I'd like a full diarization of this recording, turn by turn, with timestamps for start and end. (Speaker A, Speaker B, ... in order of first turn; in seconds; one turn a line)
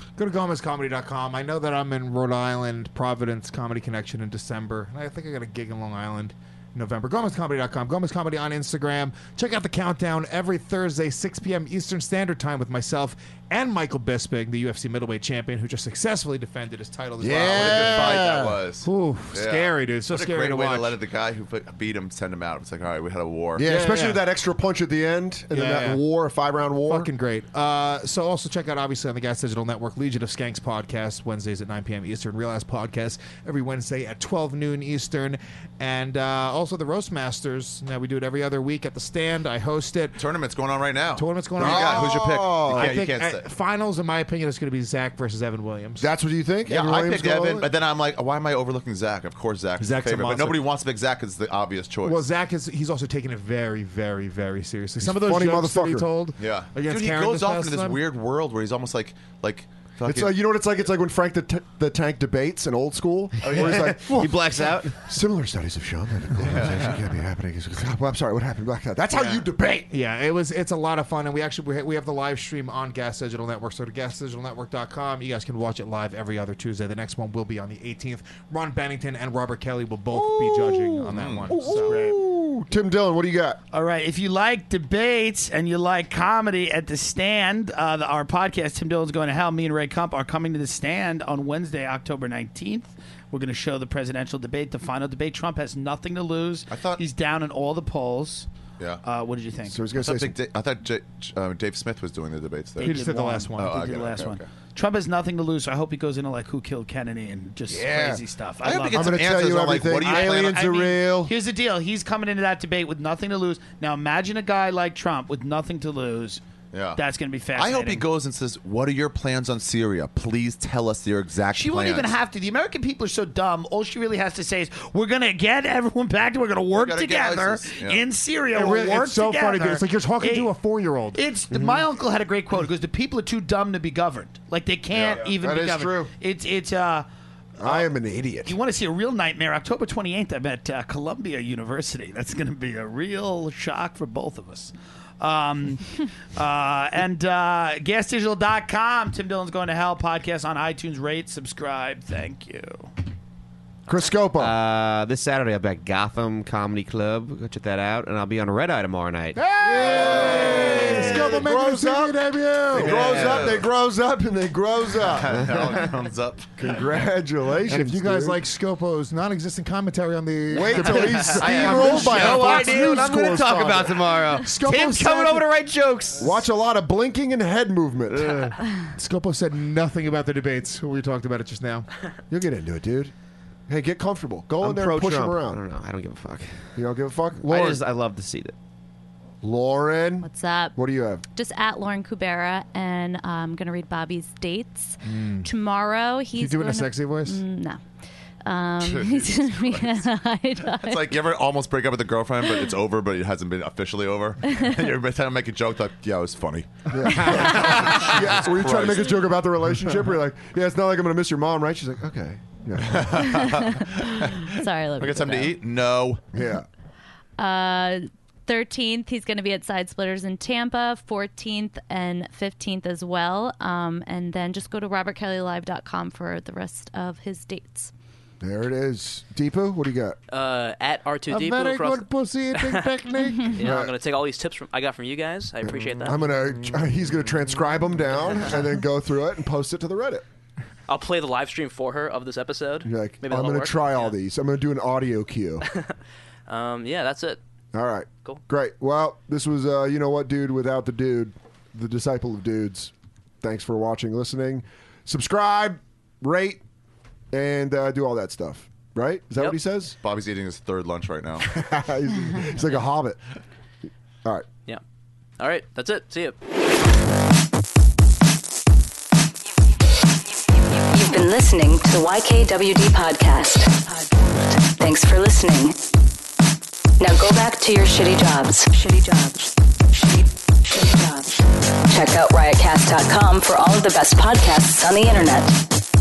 Speaker A: 0.2-18.2
Speaker B: 17.2-18.6
Speaker C: 17.5-23.6
Speaker A: 18.8-20.9
Speaker B: 23.6-27.1
Speaker A: 23.6-24.2
Speaker A: 25.5-26.0
Speaker A: 26.9-40.2
Speaker C: 40.2-43.5
Speaker A: 41.2-46.1
Speaker B: 41.6-43.0
Speaker B: 46.0-47.7
Speaker C: 46.7-52.2
Speaker A: 49.8-50.6
Speaker A: 52.0-58.0
Speaker B: 55.0-56.1
Speaker C: 56.4-60.3
Speaker B: 60.0-69.9
Speaker C: 63.4-64.0
Speaker D: 63.5-65.0
Speaker C: 66.4-67.0
Speaker A: 69.9-82.0
Speaker B: 80.1-83.6
Speaker C: 81.1-81.6
Speaker E: 81.8-82.2
Speaker E: 83.7-98.5
Speaker C: 96.7-97.0
Speaker E: 99.0-99.8
Speaker B: 99.7-100.3
Speaker C: 100.0-104.5
Speaker E: 102.8-109.3
Speaker A: 102.8-104.0
Speaker B: 107.7-108.2
Speaker C: 108.6-110.7
Speaker B: 108.9-111.3
Speaker E: 110.0-116.4
Speaker C: 116.7-117.0
Speaker E: 117.0-118.0
Speaker C: 117.5-122.2
Speaker E: 121.5-130.5
Speaker C: 126.7-128.1
Speaker A: 128.5-131.2
Speaker E: 131.1-137.1
Speaker B: 131.5-131.9
Speaker C: 134.9-135.3
Speaker B: 135.2-136.1
Speaker B: 137.6-138.6
Speaker E: 137.6-137.9
Speaker E: 138.4-152.9
Speaker B: 153.9-154.6
Speaker D: 154.4-161.3
Speaker B: 159.4-165.5
Speaker A: 159.8-163.1
Speaker C: 160.2-160.8
Speaker D: 162.8-163.6
Speaker C: 162.8-163.7
Speaker C: 165.0-166.5
Speaker D: 165.4-165.8
Speaker B: 166.6-168.4
Speaker A: 167.7-173.0
Speaker B: 170.5-174.0
Speaker D: 170.8-176.4
Speaker A: 174.4-175.5
Speaker B: 176.2-178.5
Speaker D: 178.2-178.5
Speaker A: 178.9-181.9
Speaker B: 182.3-183.1
Speaker B: 183.7-185.6
Speaker D: 184.6-186.8
Speaker B: 186.8-187.8
Speaker D: 187.4-188.6
Speaker B: 189.4-191.2
Speaker F: 190.2-190.8
Speaker F: 191.3-197.8
Speaker A: 195.0-195.5
Speaker A: 196.3-197.4
Speaker F: 198.4-201.2
Speaker C: 198.8-200.1
Speaker C: 200.6-209.3
Speaker B: 206.9-213.5
Speaker A: 207.1-208.1
Speaker F: 207.3-207.8
Speaker C: 212.8-216.2
Speaker F: 213.2-215.6
Speaker B: 216.3-216.7
Speaker F: 217.4-227.9
Speaker B: 228.4-230.2
Speaker G: 230.3-232.9
Speaker A: 231.3-233.8
Speaker G: 233.6-236.2
Speaker B: 233.6-233.9
Speaker D: 235.7-236.1
Speaker B: 236.0-240.2
Speaker G: 240.9-244.2
Speaker B: 242.8-245.7
Speaker G: 246.5-247.4
Speaker B: 247.7-256.6
Speaker B: 257.3-260.0
Speaker C: 260.0-261.5
Speaker B: 261.4-263.2
Speaker G: 265.4-266.4
Speaker H: 270.9-275.8
Speaker H: 277.0-285.6